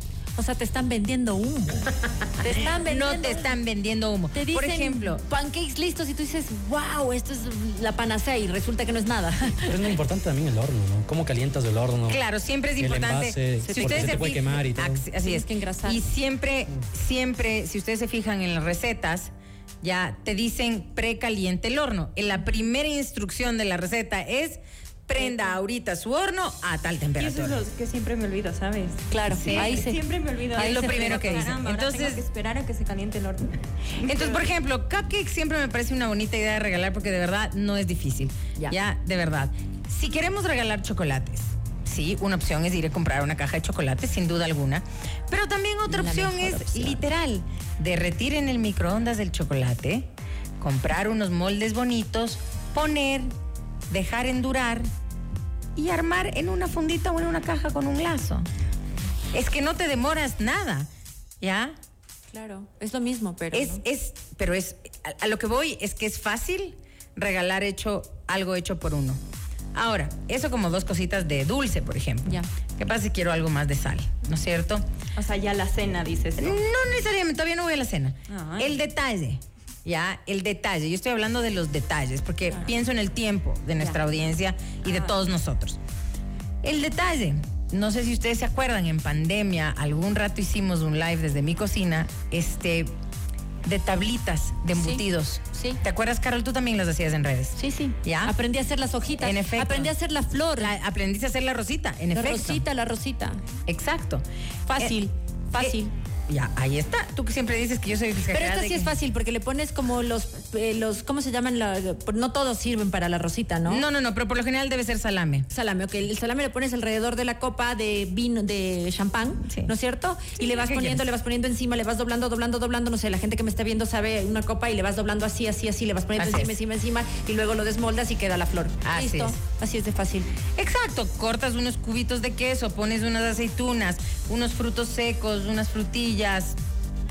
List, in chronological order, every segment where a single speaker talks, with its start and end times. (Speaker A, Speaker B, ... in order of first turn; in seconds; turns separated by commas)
Speaker A: 0.3-3.5, Speaker B: 2.5-5.2, Speaker A: 4.3-9.8, Speaker C: 9.6-12.2, Speaker B: 12.1-27.6, Speaker C: 12.8-15.0, Speaker A: 13.6-14.2, Speaker A: 15.2-16.0, Speaker D: 25.2-25.6, Speaker D: 27.1-34.5, Speaker A: 29.1-30.0, Speaker B: 29.3-29.8, Speaker A: 30.5-31.5, Speaker B: 30.6-32.2, Speaker B: 34.0-50.1, Speaker A: 45.9-47.0, Speaker B: 50.6-53.3, Speaker B: 53.9-54.9, Speaker B: 55.8-58.5, Speaker B: 59.3-60.9, Speaker B: 61.4-61.8, Speaker A: 62.3-63.8, Speaker B: 63.5-69.2, Speaker B: 69.7-74.8, Speaker D: 75.1-76.6, Speaker B: 76.4-85.8, Speaker D: 78.3-78.8, Speaker D: 84.8-85.1, Speaker B: 86.6-92.9, Speaker B: 93.7-98.3, Speaker A: 94.7-95.8, Speaker A: 97.5-100.7, Speaker B: 99.2-99.9, Speaker B: 100.6-102.6, Speaker A: 102.1-103.4, Speaker B: 103.7-104.2, Speaker A: 104.7-105.9, Speaker B: 106.3-108.9, Speaker A: 108.3-113.8, Speaker B: 113.7-115.5, Speaker A: 115.5-130.3, Speaker B: 119.5-119.7, Speaker B: 120.5-121.0, Speaker B: 126.1-126.6, Speaker B: 128.8-129.4, Speaker B: 130.6-136.6